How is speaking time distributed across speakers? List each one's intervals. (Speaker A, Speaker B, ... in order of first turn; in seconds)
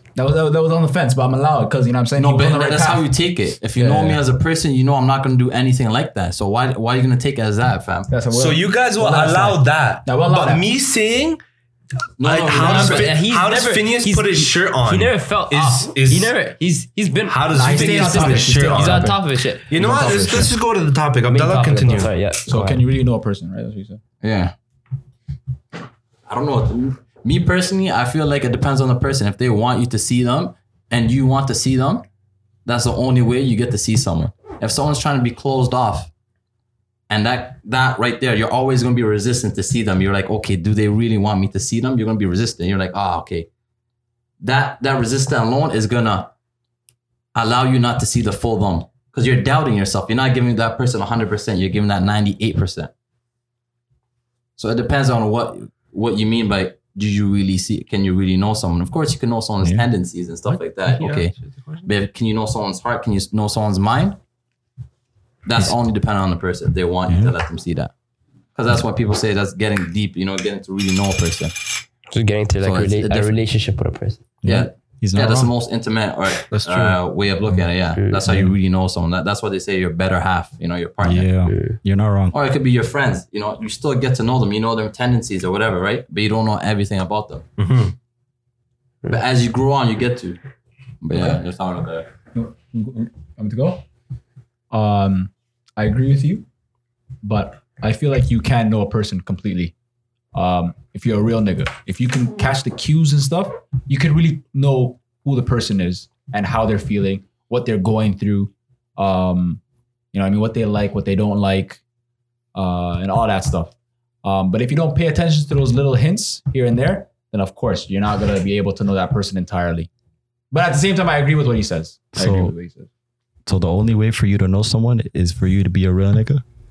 Speaker A: 0.1-3.1, 3.8-4.2, 8.1-10.7, 17.5-20.6, 22.5-24.0, 92.3-93.8, 94.7-96.5, 97.2-99.7, 100.3-109.6, 110.1-111.8, 112.5-113.7, 114.2-119.9, 120.5-122.9
Speaker B: 2.2-8.1, 12.2-13.2, 24.2-24.5, 26.3-32.0, 32.6-36.1, 37.1-43.5, 44.4-46.3, 47.4-52.9, 54.6-61.3, 61.8-64.2, 65.5-67.9, 68.5-71.5, 72.6-73.3, 74.4-81.3, 82.3-87.5, 89.1-90.4, 91.0-92.1
Speaker C: 8.3-11.4, 12.2-16.3, 17.3-22.1, 60.5-61.9, 76.5-77.0, 87.6-87.9
Speaker D: 12.6-19.7, 21.3-22.8, 72.1-74.2, 78.0-78.2, 81.5-81.8
Speaker E: 67.1-67.3, 74.4-75.5, 81.0-82.3, 122.2-122.5, 123.5-126.4